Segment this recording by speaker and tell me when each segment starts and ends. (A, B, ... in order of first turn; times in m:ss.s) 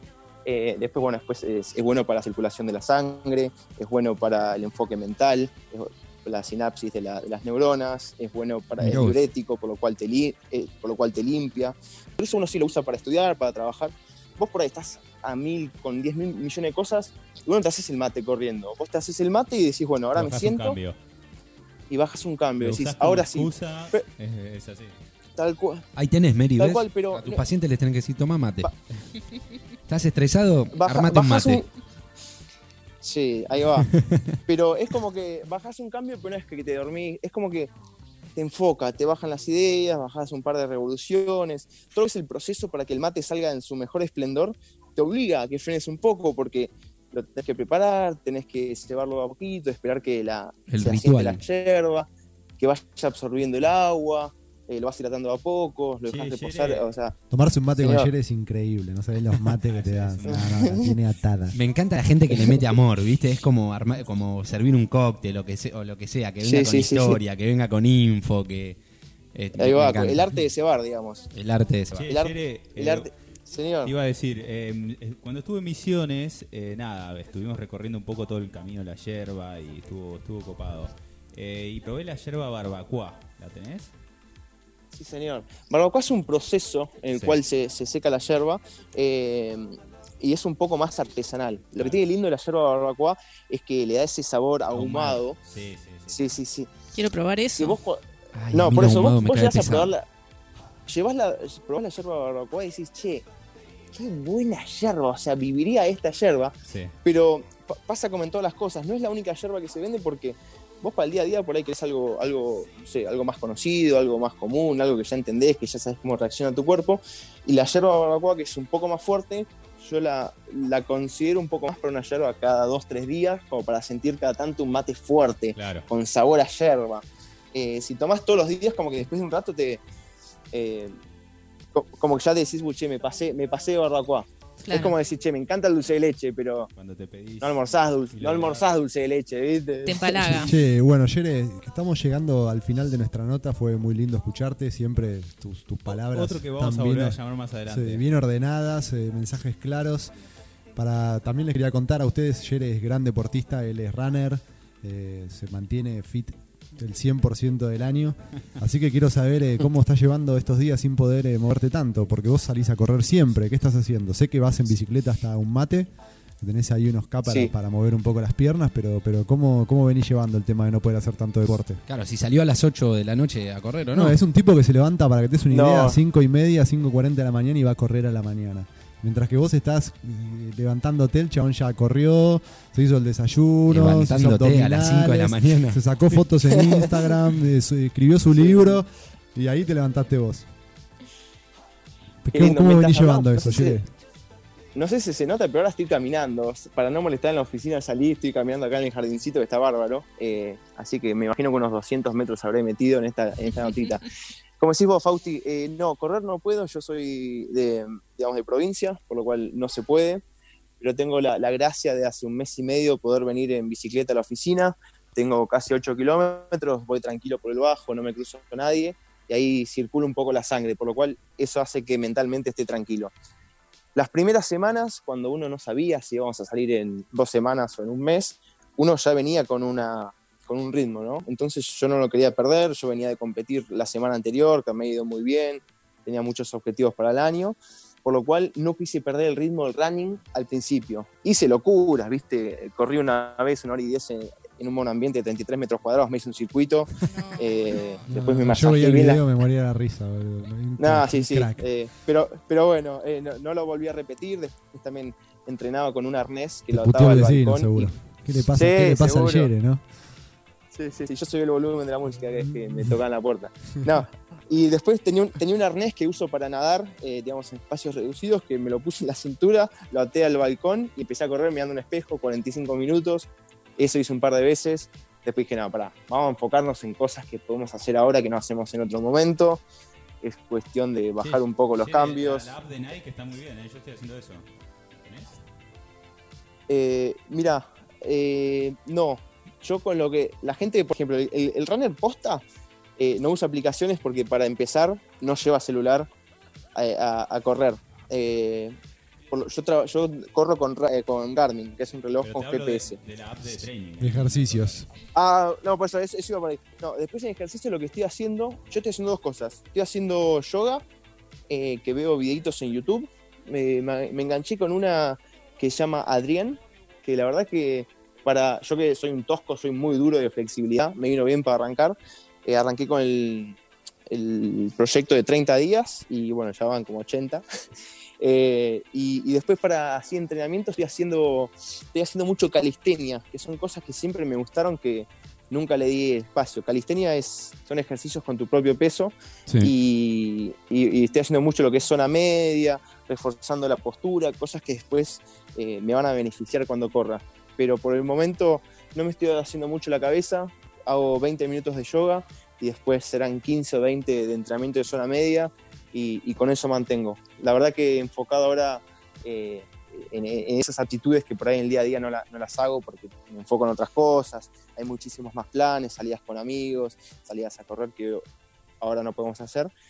0:00.4-0:20.8 A
0:08.8-0:09.2 B
0:20.1-0:21.0 C
0:21.9-0:24.0 A
0:22.6-0:25.0 C
0:25.4-0:25.9 A
0:26.0-0:28.7 B
0:26.6-0:27.4 A
0:29.9-0:31.6 B
0:30.7-0:31.7 A
0:33.0-0:33.9 A
0:33.9-0:34.2 B
0:34.4-0:37.7 A
0:38.4-0:52.1 A
0:50.7-0:51.4 B
0:52.6-0:57.1 A
0:56.1-0:56.9 C
0:57.3-1:01.6 D
0:57.8-0:58.1 A
0:59.7-1:00.7 C
1:00.5-1:00.9 A
1:01.5-1:08.8 B
1:02.3-1:02.7 A
1:06.4-1:07.2 A
1:09.3-1:10.2 B
1:09.5-1:11.3 A
1:11.3-1:12.1 B
1:11.9-1:13.1 C
1:12.1-1:13.9 A
1:13.8-1:23.9 C
1:24.9-1:35.4 A
1:27.1-1:27.4 C
1:34.7-1:36.3 C
1:36.1-1:36.7 A
1:36.9-1:37.8 E
1:37.6-1:38.0 A
1:38.3-1:39.9 B
1:38.5-1:40.0 A
1:40.9-1:43.2 A
1:43.9-2:09.8 A
1:46.7-1:46.9 C
2:05.5-2:05.9 C
2:10.5-2:10.9 A
2:11.7-2:16.7 A
2:14.6-2:14.9 E
2:16.8-2:18.6 C
2:17.4-2:20.5 A
2:19.8-2:20.5 E
2:20.3-2:30.1 D
2:25.9-2:28.0 C
2:30.7-2:45.9 D
2:46.4-2:51.8 D
2:47.2-2:47.5 A
2:51.9-2:54.2 B
2:53.9-3:10.5 D
2:55.5-2:56.0 A
3:03.7-3:05.8 B
3:06.4-3:06.9 A
3:08.4-3:08.8 A
3:12.2-3:13.9 D
3:12.3-3:13.8 A
3:14.7-3:24.0 A
3:24.6-3:30.2 A
3:30.8-3:43.1 A
3:43.9-4:09.2 A
4:07.1-4:08.1 E
4:08.1-4:11.7 D
4:10.8-4:17.9 A
4:16.7-4:19.8 D
4:18.5-4:19.5 A
4:20.7-4:39.6 A
4:40.2-4:42.5 A
4:41.2-4:44.4 C
4:45.0-4:45.4 C
4:46.7-4:52.4 A
4:53.0-4:56.1 A
4:56.7-4:58.8 A
4:59.3-5:03.0 A
5:02.2-5:04.9 C
5:04.0-5:04.9 D
5:05.1-5:10.8 A
5:11.5-5:27.4 A
5:28.2-6:08.2 A
5:39.5-5:39.7 B
6:08.8-6:09.7 A